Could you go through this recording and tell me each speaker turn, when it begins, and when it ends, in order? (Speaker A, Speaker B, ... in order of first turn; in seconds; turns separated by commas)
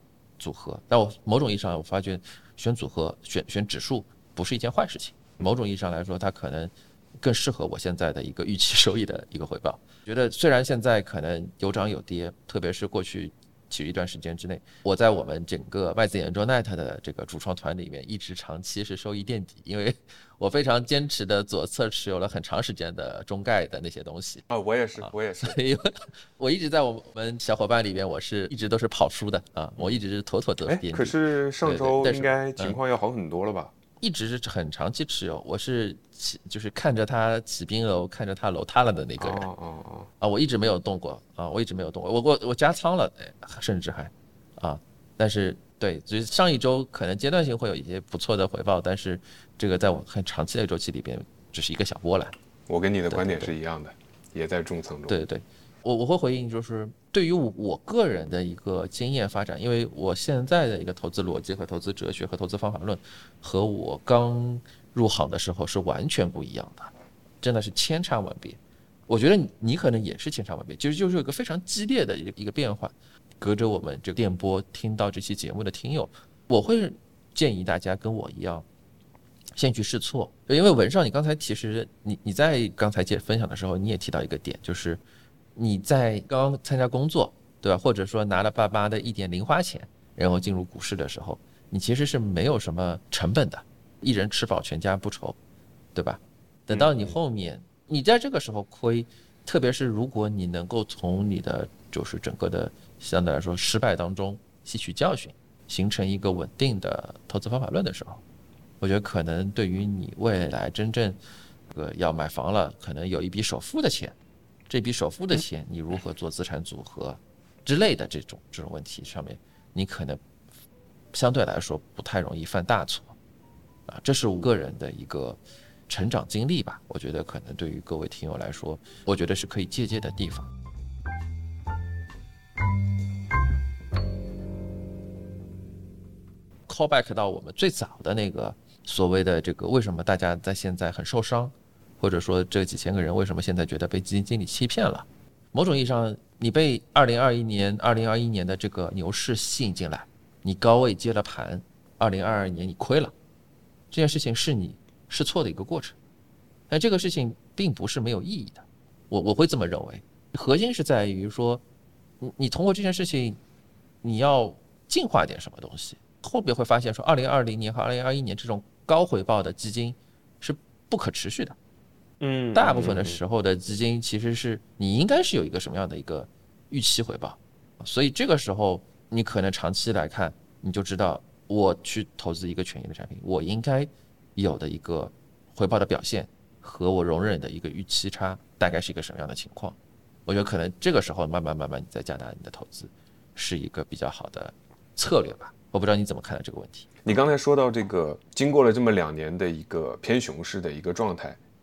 Speaker A: 0.4-24.5, Speaker B: 24.5-25.6, Speaker A: 25.0-32.8, Speaker B: 30.7-33.7, Speaker A: 34.0-39.5, Speaker B: 39.2-40.1, Speaker A: 40.2-52.3, Speaker B: 52.7-55.2, Speaker A: 53.1-53.5, Speaker A: 55.1-78.7, Speaker A: 79.6-85.0, Speaker A: 85.5-95.4, Speaker A: 96.0-108.2, Speaker B: 96.7-97.2, Speaker A: 108.8-111.2, Speaker A: 111.7-114.2, Speaker A: 114.7-120.2, Speaker A: 121.1-123.2, Speaker A: 123.9-130.5, Speaker A: 136.7-153.1, Speaker A: 153.9-155.9, Speaker A: 156.7-161.6, Speaker A: 162.2-163.4, Speaker A: 164.0-171.6, Speaker B: 172.2-173.2, Speaker A: 172.6-196.9, Speaker B: 197.1-201.4